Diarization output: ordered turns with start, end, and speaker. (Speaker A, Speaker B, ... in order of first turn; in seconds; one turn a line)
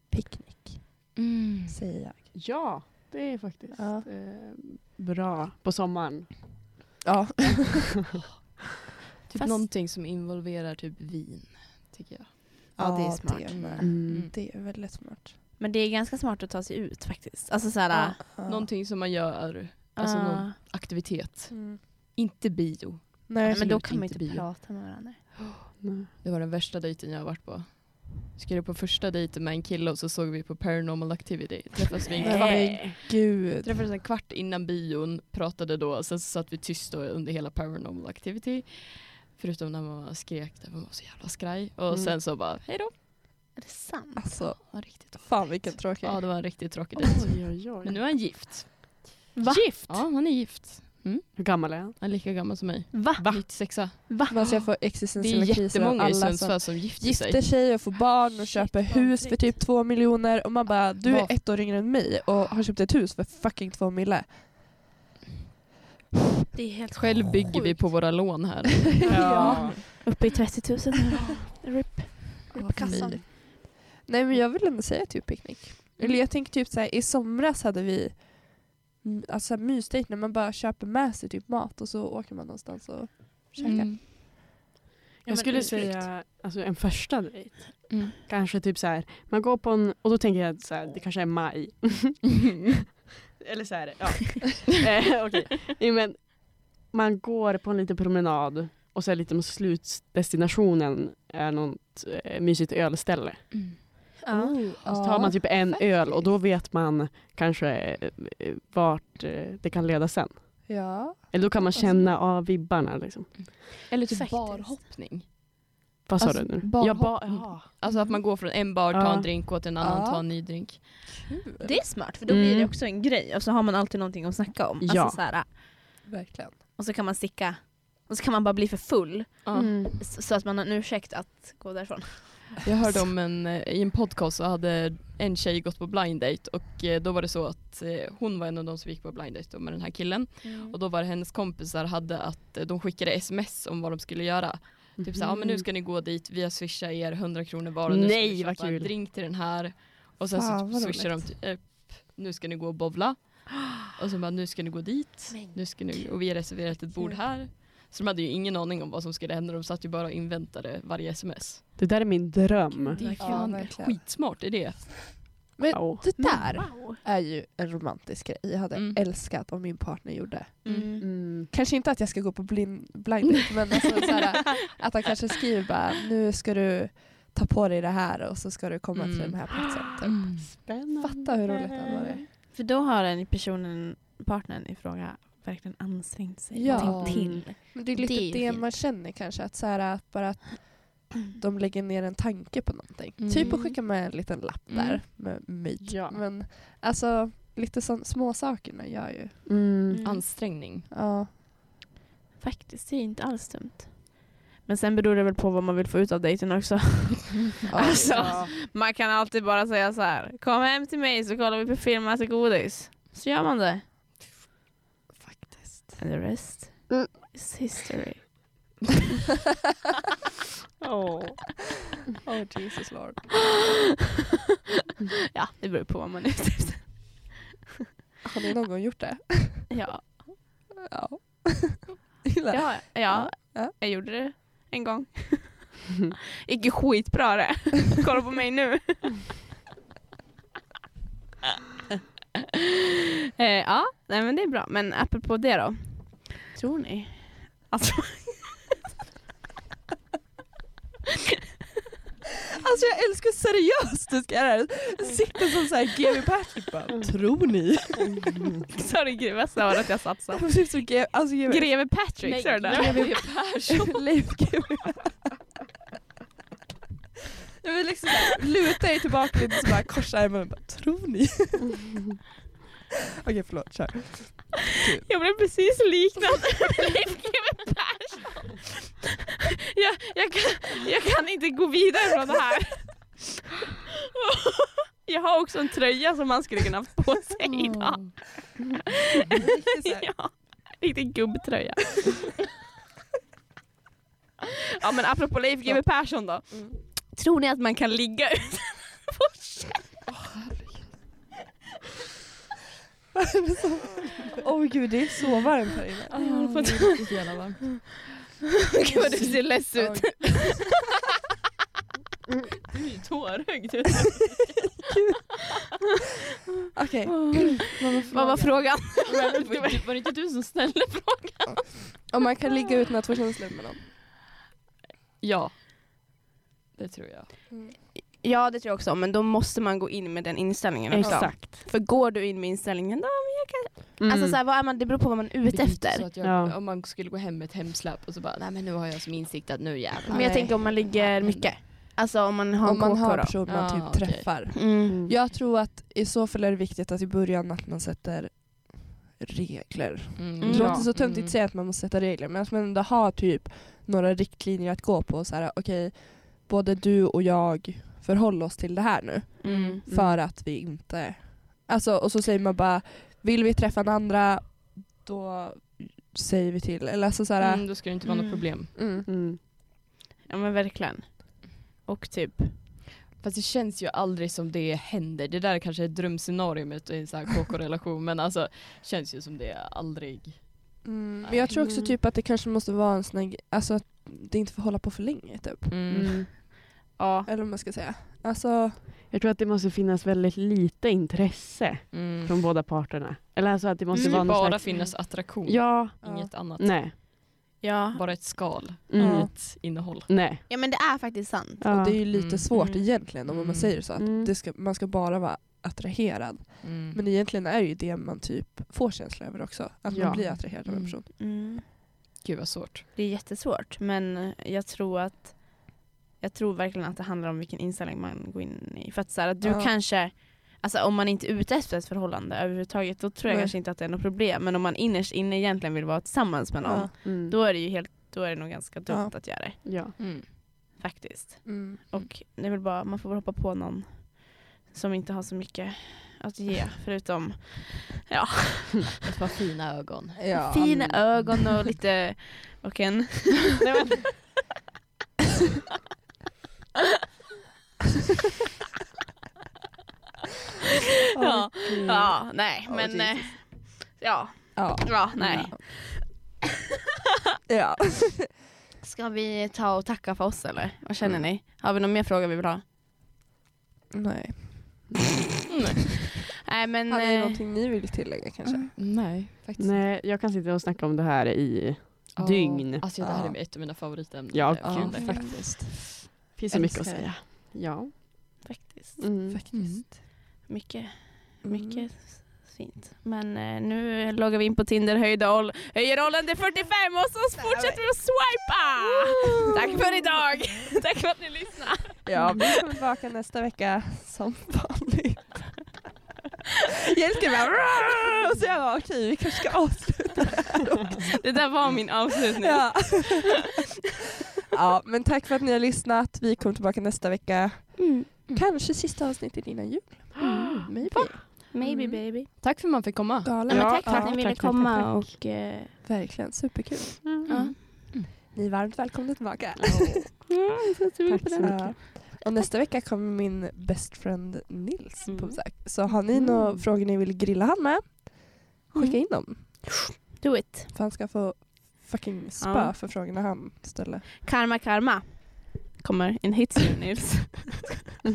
Speaker A: 0.1-1.1
Speaker B: 1.2-1.8
Speaker A: 1.7-2.2
Speaker C: 2.3-6.5
Speaker A: 3.7-4.0
Speaker A: 7.0-7.9
Speaker B: 9.3-12.3
Speaker D: 9.3-9.6
Speaker D: 12.8-13.8
Speaker A: 12.8-15.3
Speaker B: 13.5-14.3
Speaker C: 13.8-14.3
Speaker D: 15.6-18.2
Speaker A: 17.9-18.7
Speaker B: 18.4-24.5
Speaker D: 20.0-20.6
Speaker A: 21.5-21.8
Speaker A: 23.3-23.8
Speaker D: 23.5-25.2
Speaker C: 25.8-26.1
Speaker B: 26.2-32.8
Speaker C: 32.2-32.9
Speaker A: 32.2-33.8
Speaker B: 33.6-43.0
Speaker D: 43.5-44.4
Speaker A: 44.2-46.3
Speaker B: 44.7-57.5
Speaker C: 47.0-48.0
Speaker D: 49.3-50.0
Speaker C: 51.4-51.9
Speaker D: 52.9-54.3
Speaker A: 54.3-64.5
Speaker D: 58.4-59.6
Speaker B: 61.0-61.4
Speaker D: 66.5-68.2
Speaker B: 66.9-69.7
Speaker C: 69.0-69.8
Speaker A: 69.1-69.8
Speaker D: 69.3-72.3
Speaker A: 72.5-84.0
Speaker B: 72.5-73.2
Speaker C: 72.9-73.1
Speaker B: 83.7-84.0
Speaker C: 85.2-92.5
Speaker D: 85.3-86.0
Speaker B: 85.5-85.9
Speaker C: 93.4-103.8
Speaker B: 103.5-103.8
Speaker D: 104.2-104.6
Speaker A: 104.3-105.4
Speaker C: 104.4-113.6
Speaker B: 105.7-106.3
Speaker A: 110.7-112.0
Speaker B: 113.4-115.3
Speaker D: 114.1-114.8
Speaker C: 116.0-117.6
Speaker B: 116.2-121.1
Speaker C: 118.9-119.3
Speaker A: 119.8-121.8
Speaker D: 121.6-125.5
Speaker C: 122.3-122.7
Speaker C: 124.8-125.2
Speaker A: 126.0-126.5
Speaker D: 126.8-132.5
Speaker B: 129.4-129.7
Speaker C: 129.5-130.0
Speaker B: 132.6-161.6
Speaker D: 140.4-140.8
Speaker C: 145.0-145.6
Speaker C: 147.9-148.9
Speaker A: 150.2-151.3
Speaker D: 155.3-156.0
Speaker C: 161.8-163.2
Speaker D: 162.8-163.6
Speaker B: 163.0-165.2
Speaker A: 163.2-164.1
Speaker A: 165.6-182.2
Speaker C: 165.7-166.3
Speaker D: 166.2-167.0
Speaker B: 168.7-169.0
Speaker D: 170.6-171.0
Speaker C: 171.0-171.5
Speaker B: 178.9-180.4
Speaker C: 180.3-182.1
Speaker D: 181.9-188.7
Speaker A: 186.5-199.4
Speaker C: 186.7-187.4
Speaker B: 193.2-193.7
Speaker D: 193.3-193.8
Speaker B: 194.7-195.0
Speaker C: 195.8-196.2
Speaker C: 199.5-200.0
Speaker D: 199.9-200.3
Speaker B: 200.0-200.9
Speaker A: 200.9-201.3
Speaker D: 202.4-213.8
Speaker A: 207.7-208.3
Speaker C: 207.9-208.5
Speaker C: 215.3-215.9
Speaker D: 216.0-218.5
Speaker C: 220.8-221.4
Speaker A: 222.2-223.4
Speaker D: 225.3-227.3
Speaker A: 228.2-229.7
Speaker D: 229.7-230.4
Speaker A: 230.9-233.7
Speaker D: 232.5-239.2
Speaker D: 243.4-248.6
Speaker A: 252.6-258.4
Speaker D: 258.7-260.6
Speaker A: 260.3-262.0
Speaker D: 261.4-263.2
Speaker B: 262.2-264.0
Speaker A: 262.6-265.5
Speaker A: 267.6-272.2
Speaker A: 273.2-275.1
Speaker D: 275.1-279.1
Speaker D: 279.7-283.4
Speaker D: 284.2-288.5
Speaker B: 287.5-288.1
Speaker D: 289.1-292.4
Speaker A: 289.4-290.1
Speaker D: 294.8-299.9
Speaker A: 296.4-296.7
Speaker B: 300.3-301.0
Speaker A: 303.1-306.1
Speaker B: 306.1-307.9
Speaker D: 306.1-307.1
Speaker D: 308.7-310.7
Speaker B: 308.9-309.4
Speaker B: 312.7-314.7
Speaker A: 316.7-317.8
Speaker B: 317.3-322.0
Speaker D: 318.1-319.9
Speaker A: 322.1-323.8
Speaker B: 325.2-325.6
Speaker B: 326.8-327.3
Speaker D: 327.9-336.0
Speaker C: 330.9-331.6
Speaker A: 331.0-331.3
Speaker C: 334.0-334.4
Speaker B: 335.5-341.9
Speaker C: 336.2-336.6
Speaker D: 340.1-343.4
Speaker A: 342.6-367.8
Speaker B: 343.4-344.6
Speaker D: 344.5-345.0
Speaker C: 344.9-345.1
Speaker B: 350.2-351.4
Speaker D: 350.4-350.8
Speaker C: 350.5-350.8
Speaker D: 359.4-359.8
Speaker B: 359.5-359.8
Speaker C: 359.9-360.2
Speaker B: 367.4-368.7
Speaker D: 368.0-368.4
Speaker A: 368.7-369.1
Speaker C: 369.0-369.4
Speaker D: 370.2-372.6
Speaker B: 373.2-381.4
Speaker A: 380.8-385.7
Speaker C: 381.5-381.9
Speaker B: 385.7-386.2
Speaker C: 385.9-386.3
Speaker D: 387.0-387.3
Speaker A: 387.2-388.8
Speaker C: 389.1-396.9
Speaker B: 391.9-392.4
Speaker D: 393.9-394.3
Speaker B: 394.0-396.9
Speaker A: 396.0-396.3
Speaker D: 397.6-399.2
Speaker B: 397.9-400.1
Speaker C: 398.9-400.4
Speaker A: 399.0-399.2
Speaker D: 400.5-401.7
Speaker C: 401.6-402.0
Speaker A: 401.7-411.1
Speaker B: 402.1-402.5
Speaker D: 402.5-402.9
Speaker B: 403.2-403.8
Speaker C: 404.0-404.3
Speaker B: 406.6-407.0
Speaker C: 409.9-410.3
Speaker B: 409.9-411.0
Speaker D: 411.2-411.6
Speaker B: 412.2-412.8
Speaker D: 412.9-430.1
Speaker A: 419.4-419.7
Speaker A: 423.3-423.5
Speaker A: 426.6-426.9
Speaker C: 427.0-427.3
Speaker A: 428.9-429.1
Speaker C: 429.6-429.9
Speaker B: 430.0-430.2
Speaker D: 430.7-438.9
Speaker A: 431.4-431.8
Speaker B: 439.0-441.6
Speaker A: 440.2-440.9
Speaker D: 440.5-443.5
Speaker A: 451.1-452.1
Speaker D: 451.2-456.3
Speaker C: 451.7-452.1
Speaker C: 452.7-453.1
Speaker A: 454.6-455.6
Speaker A: 457.5-458.3
Speaker D: 458.8-462.6
Speaker A: 463.9-464.9
Speaker B: 465.5-465.9
Speaker D: 466.5-467.4
Speaker A: 466.9-468.7
Speaker D: 468.4-468.7
Speaker B: 468.8-469.8
Speaker C: 469.6-472.9
Speaker B: 472.1-475.4
Speaker A: 473.0-473.4
Speaker C: 474.3-475.3
Speaker A: 474.6-477.2
Speaker D: 475.0-475.4
Speaker C: 476.1-478.4
Speaker D: 478.4-479.1
Speaker C: 479.0-479.4
Speaker A: 479.3-479.9
Speaker B: 479.5-479.8
Speaker D: 480.0-492.5
Speaker A: 481.4-481.9
Speaker A: 492.1-495.8
Speaker A: 496.9-501.4
Speaker D: 501.0-503.2
Speaker A: 502.4-503.5
Speaker A: 504.5-512.0
Speaker D: 507.8-508.4
Speaker B: 510.2-510.6
Speaker C: 510.3-510.6
Speaker D: 510.8-512.3
Speaker B: 512.3-513.7
Speaker A: 513.2-514.2
Speaker C: 513.5-515.1
Speaker D: 513.5-515.7
Speaker A: 515.8-517.1
Speaker B: 517.3-518.0
Speaker A: 518.1-520.3
Speaker C: 519.6-520.1
Speaker D: 520.3-522.1
Speaker C: 521.1-521.7
Speaker A: 521.4-529.9
Speaker D: 525.0-525.4
Speaker C: 526.1-526.7
Speaker D: 528.7-529.6
Speaker D: 530.2-530.7
Speaker A: 530.7-534.1
Speaker D: 532.4-532.7
Speaker D: 534.2-537.7